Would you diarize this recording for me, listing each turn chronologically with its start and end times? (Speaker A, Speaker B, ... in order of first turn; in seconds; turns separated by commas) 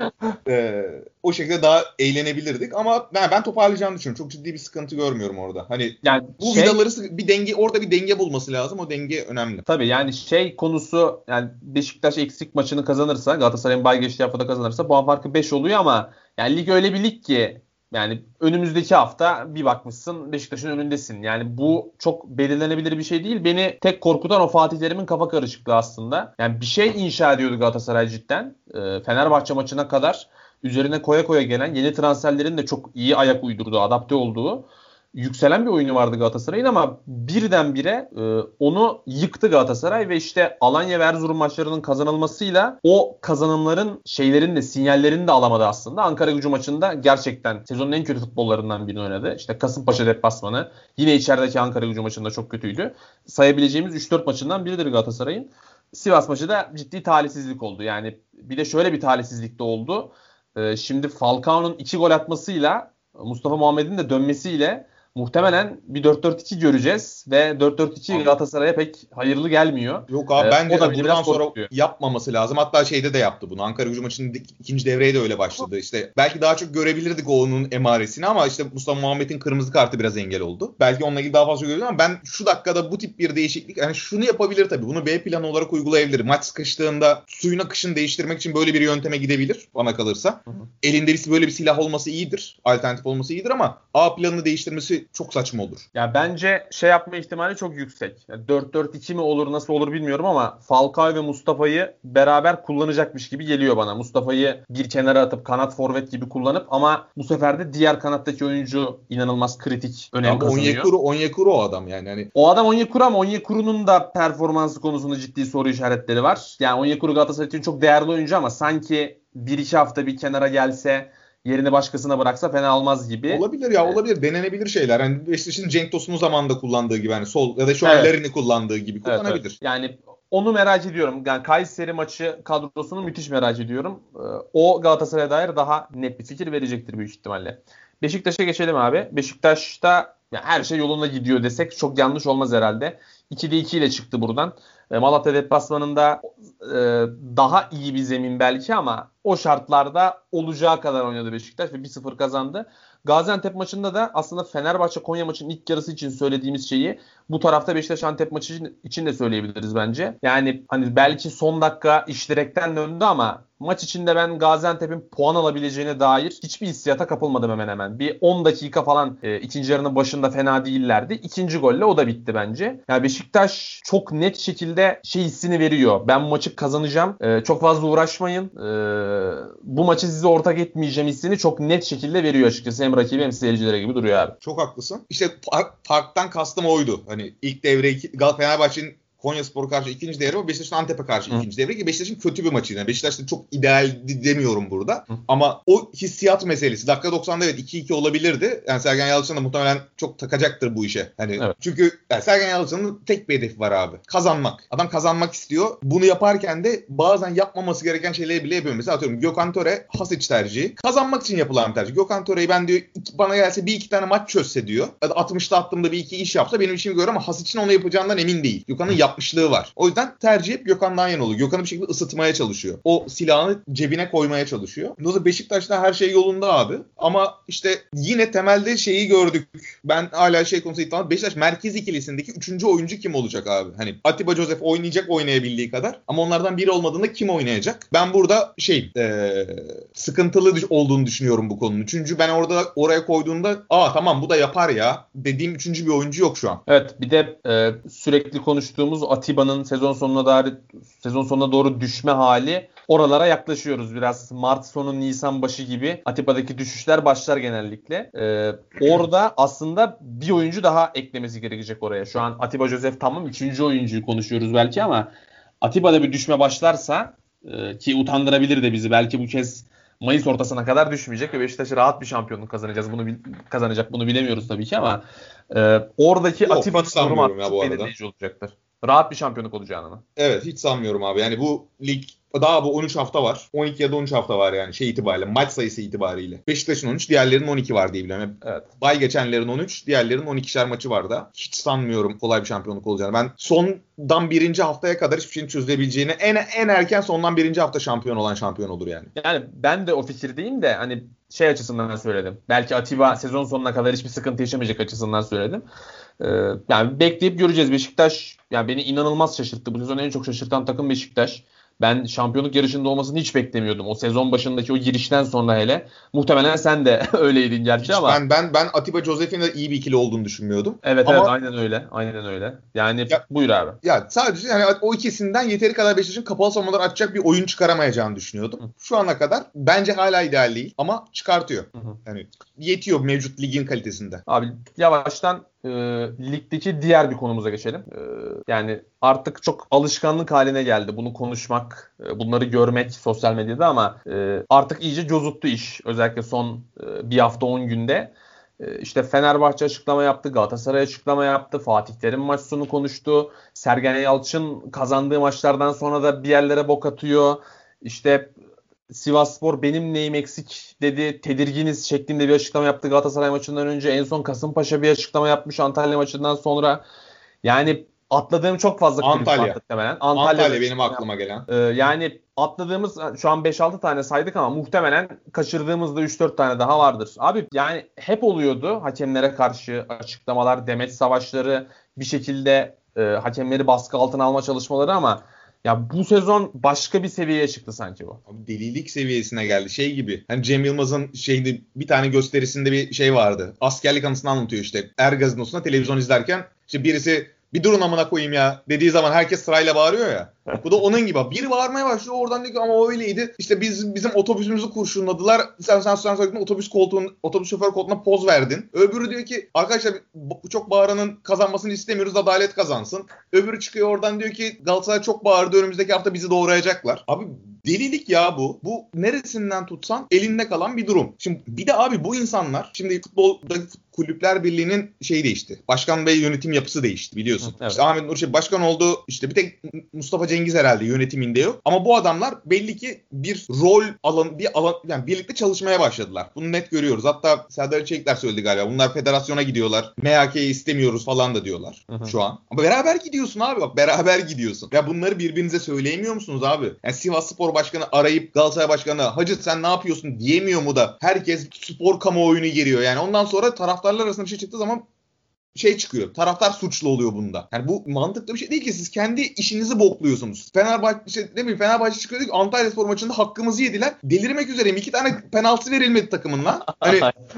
Speaker A: 0.5-9.7, Speaker B: 6.0-6.8, Speaker B: 9.7-71.7, Speaker A: 68.1-68.4, Speaker A: 70.1-95.8, Speaker B: 96.0-110.9, Speaker A: 110.2-112.3, Speaker B: 112.3-124.0, Speaker A: 123.3-129.6, Speaker B: 127.8-128.2, Speaker B: 129.1-184.4, Speaker A: 184.4-246.6, Speaker B: 246.7-265.1, Speaker B: 265.6-280.0, Speaker A: 276.4-277.9, Speaker A: 280.2-299.1, Speaker B: 299.2-305.6, Speaker B: 306.2-318.2, Speaker A: 317.8-321.3, Speaker B: 320.8-323.8, Speaker A: 323.8-334.2, Speaker B: 334.3-358.4, Speaker B: 358.9-366.8, Speaker B: 367.4-388.2, Speaker A: 369.0-369.6, Speaker A: 370.1-371.5, Speaker A: 388.3-454.9, Speaker B: 427.4-427.8, Speaker B: 441.9-442.1, Speaker A: 455.5-467.1, Speaker B: 466.7-467.1